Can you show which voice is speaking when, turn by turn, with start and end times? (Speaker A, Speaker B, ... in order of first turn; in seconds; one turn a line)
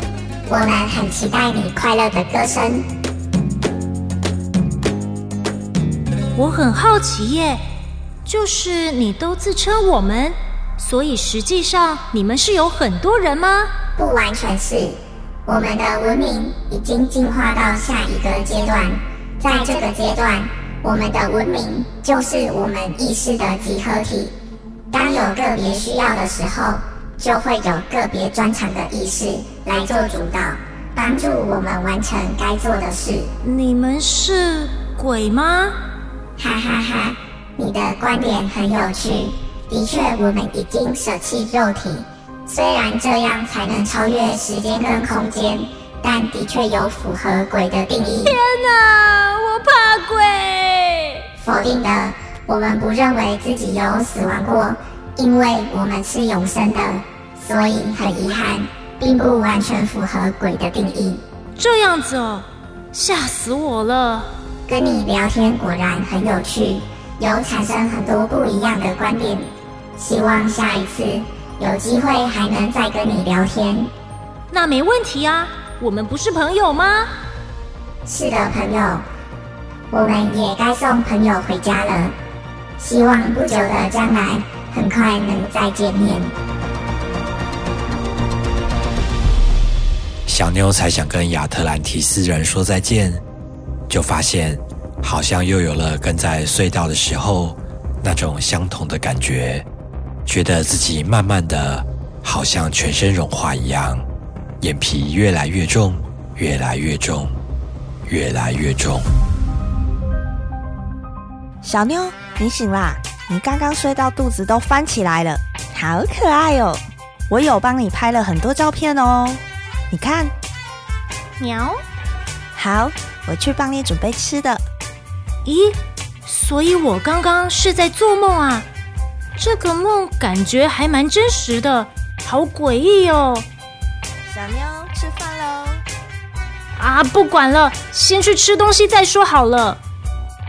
Speaker A: 0.5-2.9
Speaker B: 6.3-7.6
Speaker B: 8.2-13.7
Speaker A: 14.0-24.3
Speaker A: 24.9-33.3
Speaker B: 33.4-35.8
Speaker A: 36.4-48.4
Speaker B: 48.2-51.2
Speaker A: 51.4-61.2
Speaker B: 61.6-64.3
Speaker A: 64.7-73.9
Speaker B: 74.5-77.1
Speaker A: 78.0-79.0
Speaker A: 79.9-82.1
Speaker A: 82.8-86.3
Speaker C: 90.3-93.2
Speaker C: 93.9-99.6
Speaker C: 100.2-104.0
Speaker C: 104.6-107.3
Speaker C: 108.1-109.0
Speaker D: 111.6-120.3
Speaker B: 121.4-121.8
Speaker D: 122.5-124.6
Speaker B: 125.4-128.7
Speaker B: 129.3-133.5
Speaker D: 134.3-135.8
Speaker B: 136.8-139.8